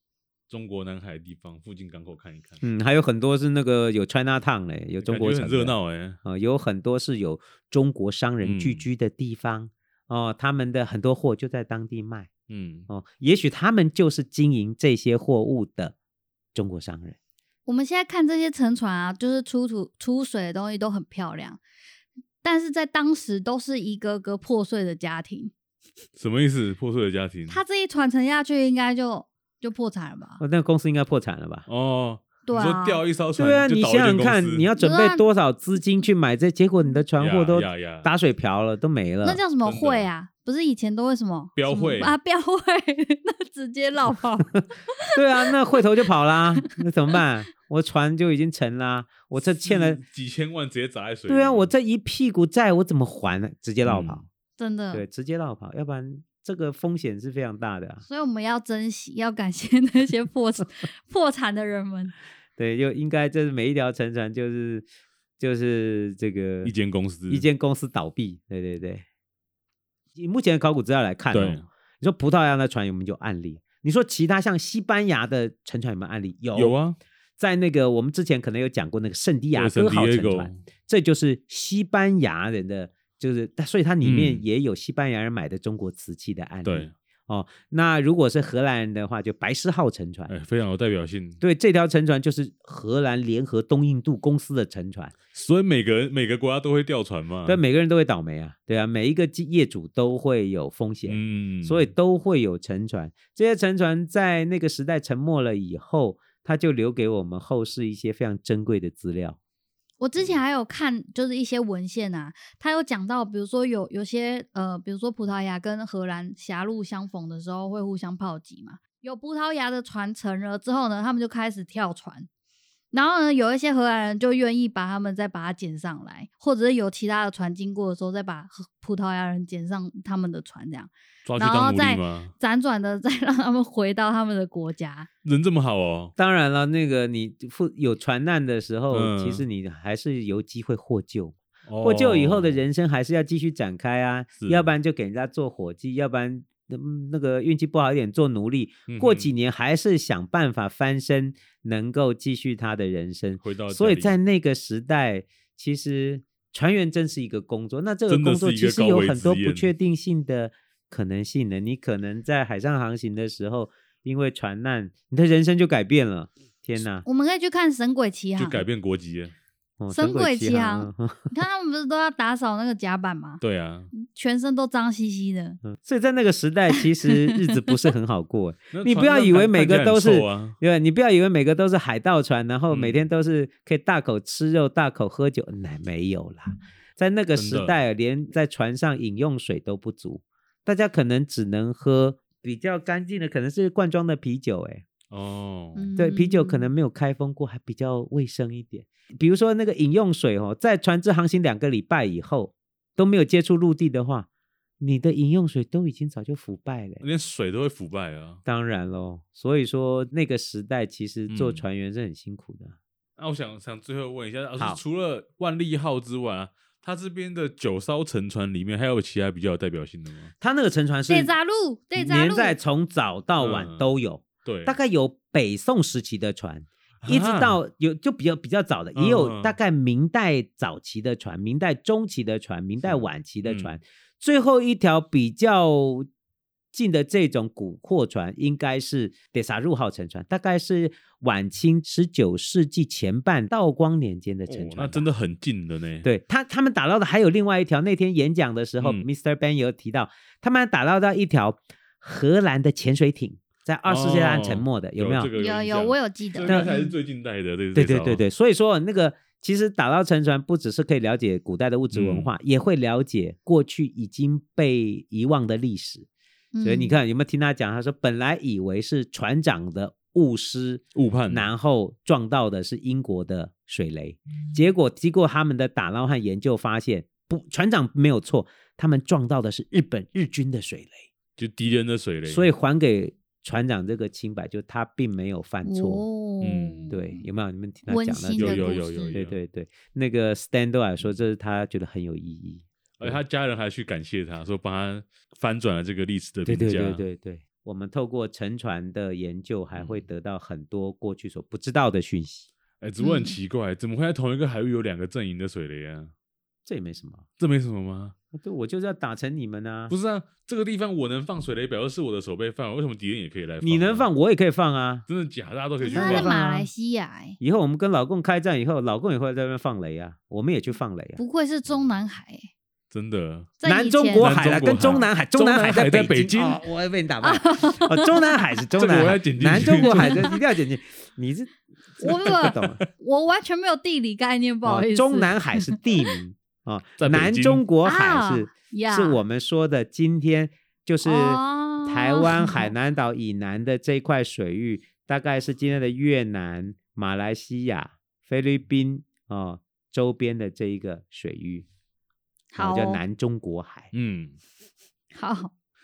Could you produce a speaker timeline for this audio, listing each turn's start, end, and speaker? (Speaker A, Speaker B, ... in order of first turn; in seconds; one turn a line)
Speaker A: 0.5-2.6
Speaker B: 2.6-12.3
Speaker A: 5.0-6.2
Speaker A: 8.4-8.8
Speaker A: 12.5-12.9
Speaker B: 12.9-15.9
Speaker B: 16.5-17.2
Speaker C: 17.6-21.6
Speaker C: 22.4-25.5
Speaker A: 26.2-27.6
Speaker C: 27.5-30.4
Speaker B: 30.4-31.6
Speaker A: 31.7-34.7
Speaker C: 32.4-33.0
Speaker B: 33.4-39.4
Speaker C: 34.8-35.2
Speaker A: 37.2-38.1
Speaker C: 39.2-45.8
Speaker A: 39.6-40.1
Speaker A: 41.5-42.1
Speaker B: 45.1-50.0
Speaker C: 46.3-46.8
Speaker A: 49.6-51.7
Speaker B: 51.3-54.2
Speaker A: 53.9-54.2
Speaker C: 54.6-55.0
Speaker B: 54.9-58.0
Speaker C: 58.0-62.1
Speaker B: 62.6-64.8
Speaker B: 65.4-66.7
Speaker A: 66.6-67.5
Speaker B: 67.3-69.0
Speaker B: 70.2-76.8
Speaker A: 71.3-71.7
Speaker A: 76.5-77.0
Speaker B: 77.4-90.3
Speaker A: 79.5-80.6
Speaker A: 84.0-84.4
Speaker A: 86.6-86.9
Speaker A: 90.3-91.4
Speaker B: 91.4-95.1
Speaker A: 95.3-97.6
Speaker B: 97.5-109.4
Speaker A: 101.1-101.9
Speaker C: 110.0-122.3
Speaker C: 122.9-135.1
Speaker A: 131.2-132.3
Speaker A: 135.2-136.1
Speaker B: 136.2-167.1
Speaker A: 138.9-139.4
Speaker A: 141.7-142.6
Speaker A: 144.4-144.7
Speaker A: 148.9-149.3
Speaker A: 153.4-154.2
Speaker A: 158.1-159.7
Speaker C: 167.0-168.6
Speaker A: 168.4-169.3
Speaker B: 169.8-171.3
Speaker C: 169.9-173.4
Speaker A: 173.4-173.9
Speaker C: 173.9-175.6
Speaker B: 175.6-194.8
Speaker C: 176.7-177.4
Speaker A: 178.7-180.6
Speaker A: 182.7-183.0
Speaker A: 187.3-187.7
Speaker A: 195.1-195.9
Speaker C: 195.8-196.7
Speaker B: 196.0-204.3
Speaker B: 204.8-207.0
Speaker A: 207.0-208.4
Speaker B: 208.4-212.8
Speaker A: 211.3-211.6
Speaker A: 213.2-220.3
Speaker B: 220.4-221.3
Speaker C: 221.1-222.6
Speaker B: 221.9-236.1
Speaker A: 223.4-223.8
Speaker A: 224.4-224.8
Speaker A: 227.0-227.6
Speaker A: 228.9-229.6
Speaker A: 232.8-233.8
Speaker B: 236.7-245.1
Speaker A: 244.5-246.1
Speaker B: 246.0-255.3
Speaker A: 248.8-249.1
Speaker A: 253.8-258.2
Speaker C: 255.3-256.9
Speaker B: 256.4-256.7
Speaker B: 257.7-266.1
Speaker A: 261.9-262.3
Speaker C: 266.5-266.9
Speaker B: 266.6-281.1
Speaker A: 270.9-271.5
Speaker A: 281.4-282.5
Speaker B: 282.3-286.0
Speaker C: 285.6-287.2
Speaker A: 286.4-286.9
Speaker B: 286.9-293.2
Speaker C: 287.9-289.2
Speaker A: 288.4-289.4
Speaker A: 293.0-297.0
Speaker B: 296.4-302.5
Speaker A: 299.8-300.0
Speaker A: 302.8-306.1
Speaker C: 303.0-303.4
Speaker B: 306.6-307.2
Speaker A: 307.4-308.1
Speaker B: 308.3-309.9
Speaker A: 309.9-314.1
Speaker B: 313.6-315.1
Speaker A: 315.1-316.3
Speaker C: 315.8-317.4
Speaker B: 315.9-316.7
Speaker B: 317.4-321.2
Speaker C: 321.2-322.5
Speaker A: 322.9-323.5
Speaker C: 323.6-324.3
Speaker B: 323.6-332.8
Speaker A: 324.2-326.6
Speaker C: 327.2-328.4
Speaker A: 328.8-330.4
Speaker C: 329.8-330.4
Speaker C: 332.0-335.8
Speaker A: 332.1-332.8
Speaker B: 334.6-351.7
Speaker A: 337.0-337.6
Speaker C: 337.8-339.2
Speaker C: 341.0-342.7
Speaker C: 352.5-353.0
Speaker B: 352.6-353.9
Speaker A: 353.9-354.4
Speaker C: 355.1-355.5